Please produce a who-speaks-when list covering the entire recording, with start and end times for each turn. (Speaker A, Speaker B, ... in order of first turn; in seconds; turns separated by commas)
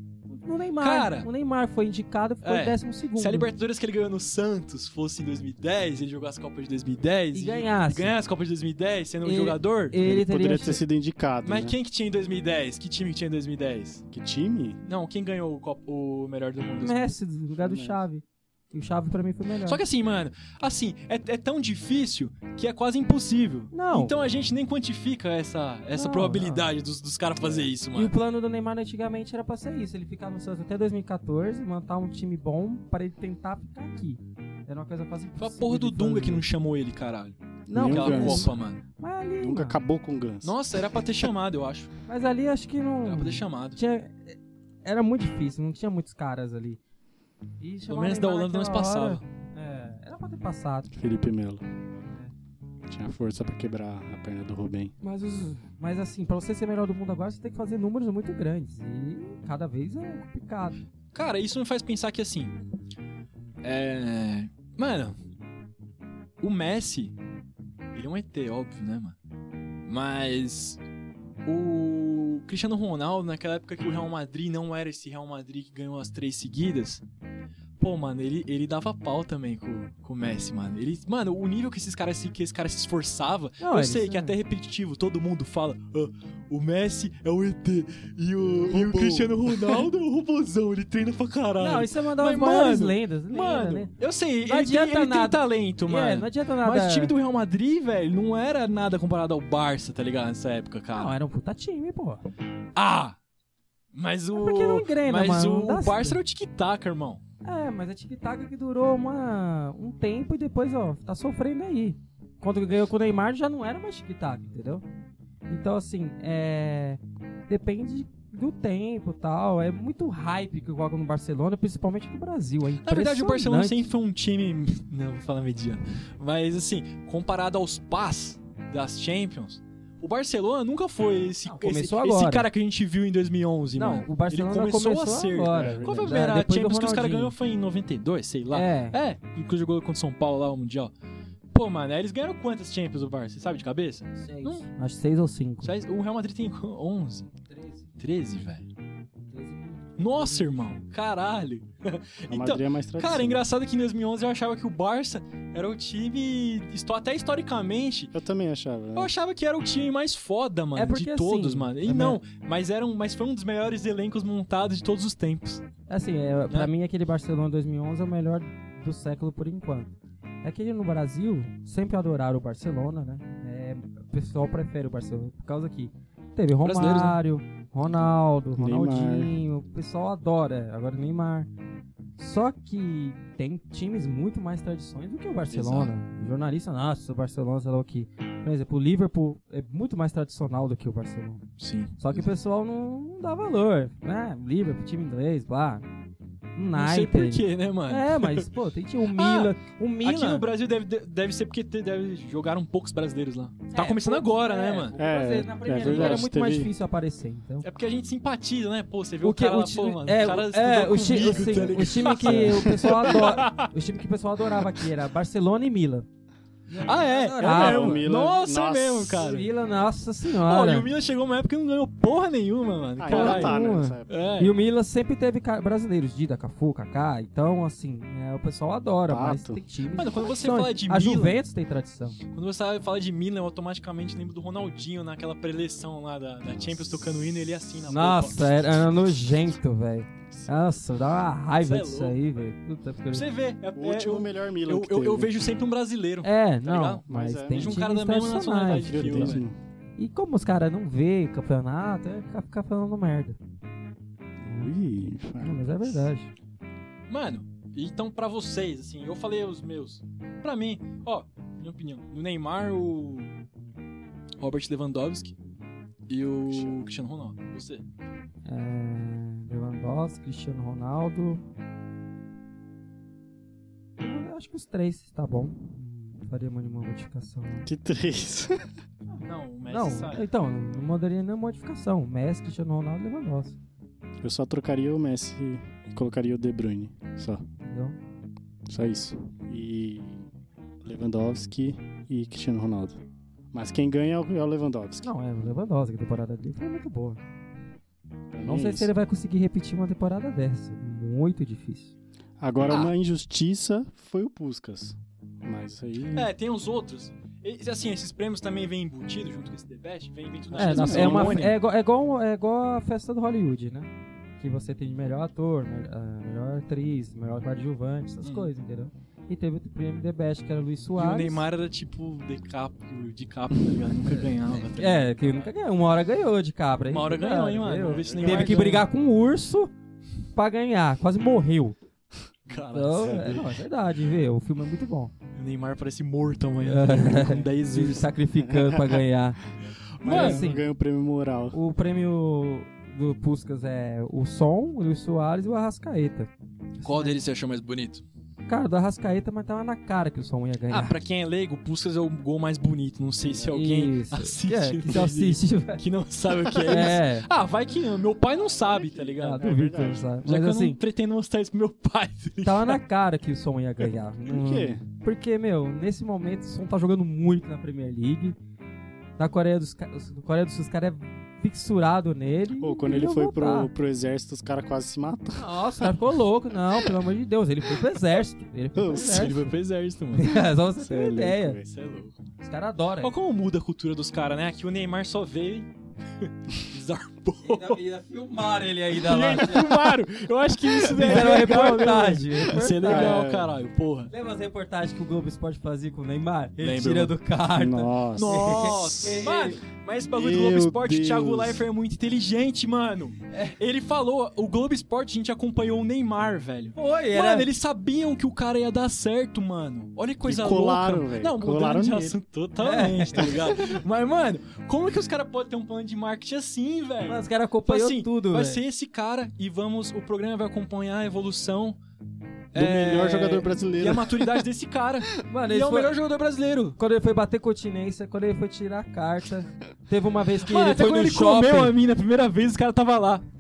Speaker A: 0.3-3.5, Speaker B: 0.8-1.3, Speaker B: 2.4-10.0, Speaker A: 7.3-8.1, Speaker A: 9.2-10.8, Speaker C: 10.0-11.8, Speaker B: 11.4-14.0, Speaker C: 14.1-14.8, Speaker B: 14.8-17.1, Speaker A: 16.8-19.8, Speaker C: 17.6-18.0, Speaker B: 19.6-28.1, Speaker A: 23.7-24.2, Speaker A: 25.9-26.7, Speaker C: 27.4-27.7, Speaker A: 27.9-36.5, Speaker B: 35.4-38.8, Speaker C: 37.7-38.5, Speaker A: 37.7-39.8, Speaker C: 39.4-40.6, Speaker B: 40.4-41.9, Speaker A: 42.1-46.8, Speaker B: 43.0-43.8, Speaker A: 47.6-50.9, Speaker B: 47.9-49.2, Speaker C: 50.9-51.6, Speaker A: 52.0-52.3, Speaker C: 52.9-54.9, Speaker A: 55.0-60.8, Speaker B: 61.1-62.6, Speaker B: 63.6-65.2, Speaker B: 66.4-67.2, Speaker B: 67.9-69.2, Speaker B: 69.8-70.8, Speaker B: 71.5-77.0, Speaker B: 77.8-101.2, Speaker A: 83.6-84.4, Speaker A: 88.6-89.2, Speaker C: 88.7-89.3, Speaker A: 91.6-93.9, Speaker A: 94.5-97.1, Speaker A: 100.9-102.3, Speaker B: 102.8-103.2, Speaker B: 103.9-107.2, Speaker A: 104.3-106.2, Speaker A: 107.4-114.8, Speaker A: 115.5-123.8, Speaker B: 122.8-140.9, Speaker A: 131.4-132.5, Speaker A: 133.8-137.3, Speaker C: 135.5-136.3, Speaker A: 138.5-139.0, Speaker B: 141.5-144.7, Speaker A: 144.2-145.7, Speaker B: 145.6-147.3, Speaker A: 147.5-147.9, Speaker B: 148.0-148.7, Speaker A: 149.3-150.8, Speaker B: 150.0-158.1, Speaker C: 152.3-153.4, Speaker C: 158.1-159.1, Speaker B: 158.9-165.6, Speaker A: 160.8-162.2, Speaker A: 165.9-169.9, Speaker A: 170.4-181.5, Speaker B: 176.6-177.2, Speaker C: 178.6-179.3, Speaker A: 182.2-191.4, Speaker B: 185.5-185.9, Speaker B: 191.6-192.2, Speaker A: 192.0-195.8, Speaker A: 196.6-200.5, Speaker B: 196.8-198.5, Speaker B: 199.2-204.9, Speaker A: 203.7-207.7, Speaker C: 204.9-206.7, Speaker B: 205.7-206.3, Speaker B: 207.6-213.7, Speaker A: 209.2-216.1, Speaker C: 211.2-213.2, Speaker A: 216.7-218.1, Speaker B: 216.8-219.5, Speaker C: 217.4-219.3, Speaker A: 219.2-220.9, Speaker B: 220.3-224.5, Speaker C: 223.0-224.3, Speaker A: 223.1-232.2, Speaker C: 229.1-229.6, Speaker B: 229.9-231.4, Speaker B: 232.3-238.5, Speaker C: 236.4-237.4, Speaker A: 237.9-243.3, Speaker B: 241.6-242.2, Speaker B: 243.1-249.4, Speaker C: 243.8-245.4, Speaker A: 246.2-249.4, Speaker C: 247.1-247.8, Speaker C: 248.7-249.6, Speaker A: 250.0-253.4, Speaker C: 254.4-256.1, Speaker A: 254.5-256.3, Speaker B: 257.1-263.3, Speaker B: 264.4-265.4, Speaker B: 266.1-267.8, Speaker C: 266.5-266.8, Speaker A: 268.4-271.4, Speaker A: 274.0-277.7, Speaker C: 277.6-278.7, Speaker A: 279.1-283.6, Speaker B: 279.2-280.2, Speaker C: 284.2-287.4, Speaker A: 287.6-288.0, Speaker C: 288.7-290.3, Speaker C: 290.8-293.0, Speaker C: 293.5-295.1, Speaker A: 295.0-297.2, Speaker C: 298.3-298.9, Speaker A: 298.4-301.9, Speaker C: 302.4-306.3, Speaker B: 306.1-311.6, Speaker C: 310.5-311.5, Speaker A: 310.6-321.4, Speaker B: 318.2-318.5, Speaker B: 321.0-325.5, Speaker A: 324.7-329.7, Speaker B: 326.9-328.9, Speaker C: 327.9-328.8, Speaker A: 330.4-331.8, Speaker B: 332.5-333.4, Speaker A: 332.5-335.1, Speaker C: 333.0-333.4, Speaker B: 335.4-338.1, Speaker A: 336.6-339.4, Speaker C: 338.5-339.0, Speaker B: 340.0-340.5, Speaker C: 340.0-341.6, Speaker A: 340.0-340.6, Speaker A: 341.5-347.1, Speaker B: 346.8-348.0, Speaker A: 348.5-351.0, Speaker B: 350.7-359.5, Speaker C: 353.3-353.6, Speaker A: 353.5-355.8, Speaker A: 356.6-357.3, Speaker C: 358.3-360.1, Speaker A: 359.2-360.8, Speaker B: 360.2-362.8, Speaker A: 362.4-368.4, Speaker C: 364.2-364.8, Speaker A: 369.2-373.7, Speaker C: 372.6-375.4, Speaker A: 375.4-379.5, Speaker C: 378.8-379.4, Speaker B: 378.9-380.3, Speaker A: 380.1-381.6, Speaker C: 380.8-381.7, Speaker B: 381.6-382.3, Speaker A: 382.4-383.1, Speaker B: 383.0-387.8, Speaker A: 387.4-389.9, Speaker B: 388.9-394.1, Speaker A: 390.9-393.2, Speaker C: 390.9-391.7, Speaker C: 392.8-393.5, Speaker A: 394.1-399.6, Speaker B: 396.6-397.1, Speaker C: 397.6-399.2, Speaker B: 398.2-421.8, Speaker C: 400.1-401.6, Speaker A: 406.8-407.5, Speaker C: 410.2-412.2, Speaker A: 412.6-413.6, Speaker A: 417.1-418.6, Speaker B: 422.5-426.8, Speaker C: 422.6-424.5, Speaker A: 425.3-425.9, Speaker A: 426.8-431.8, Speaker B: 430.4-433.2